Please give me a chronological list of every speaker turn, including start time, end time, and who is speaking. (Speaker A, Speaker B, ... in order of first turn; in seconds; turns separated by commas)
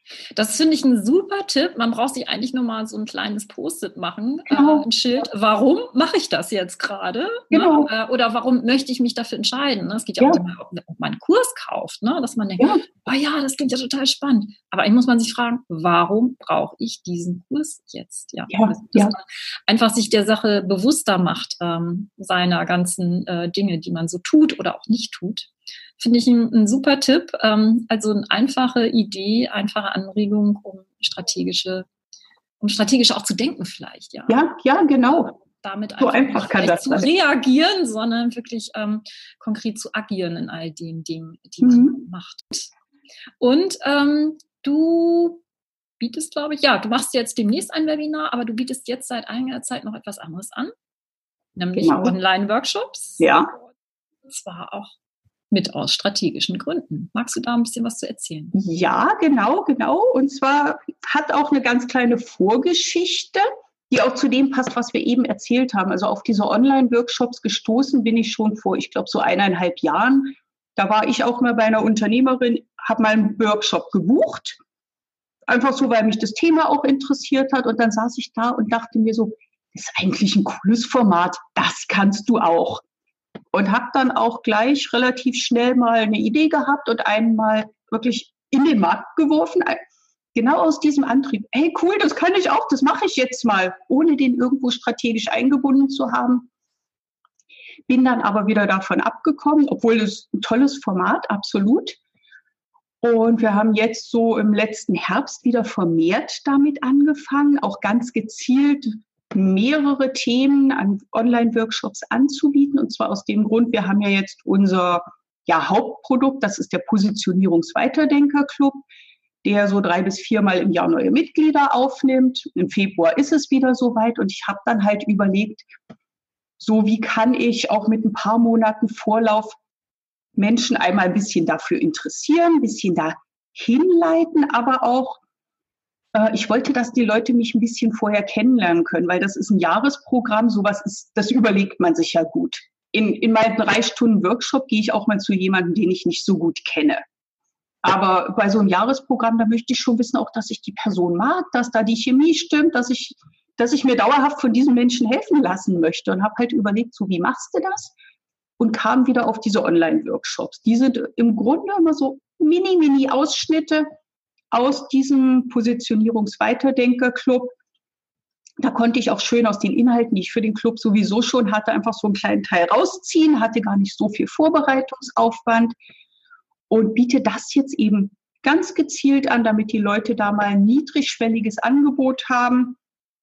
Speaker A: 0.3-31.9, Speaker B: 4.5-4.8, Speaker B: 7.5-7.9, Speaker B: 18.5-19.1, Speaker A: 32.6-34.4, Speaker B: 34.3-35.4, Speaker A: 35.5-42.7, Speaker B: 36.0-37.1, Speaker B: 41.6-42.0, Speaker A: 43.4-45.4, Speaker A: 46.0-50.7, Speaker A: 51.5-53.6, Speaker B: 51.8-52.1, Speaker B: 53.2-53.5, Speaker A: 54.3-54.9, Speaker A: 55.5-58.5, Speaker B: 58.5-74.6, Speaker B: 75.5-82.8, Speaker B: 83.5-89.8, Speaker B: 90.3-96.5, Speaker B: 97.9-102.0, Speaker B: 103.0-118.8, Speaker B: 119.4-125.7, Speaker B: 126.6-129.6, Speaker B: 130.3-135.2, Speaker B: 136.1-147.0, Speaker B: 147.8-157.9, Speaker B: 158.6-163.8, Speaker B: 164.5-167.5, Speaker B: 168.6-175.7, Speaker B: 176.7-182.8